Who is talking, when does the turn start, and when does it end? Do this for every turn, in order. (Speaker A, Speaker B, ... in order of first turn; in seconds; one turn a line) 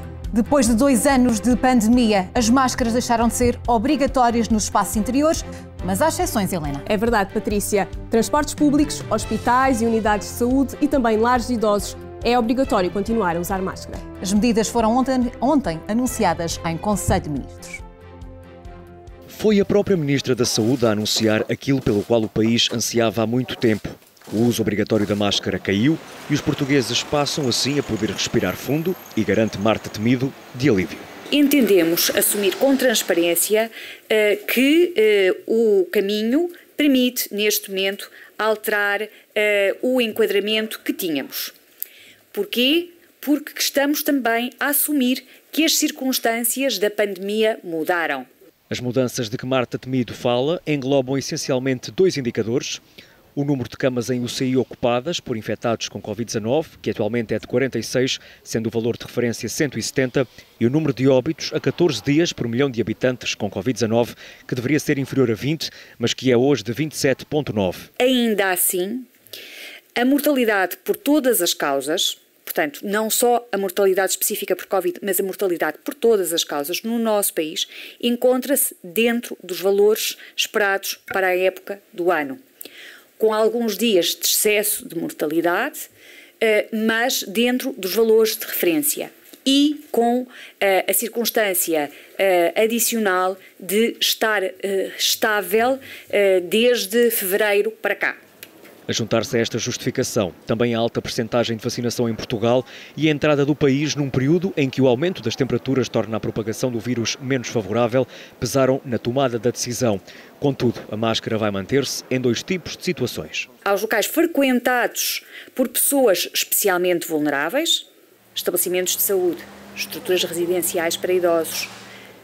Speaker A: 0.3-6.8
Speaker B: 6.9-14.0
Speaker A: 14.2-17.8
Speaker C: 19.3-31.1
Speaker D: 31.3-41.5
Speaker D: 42.3-48.3
Speaker C: 48.7-52.8
Speaker C: 53.4-67.9
Speaker D: 68.0-69.1
Speaker D: 70.0-82.4
Speaker D: 83.2-85.9
Speaker D: 86.4-98.2
Speaker C: 98.9-113.5
Speaker D: 113.6-121.8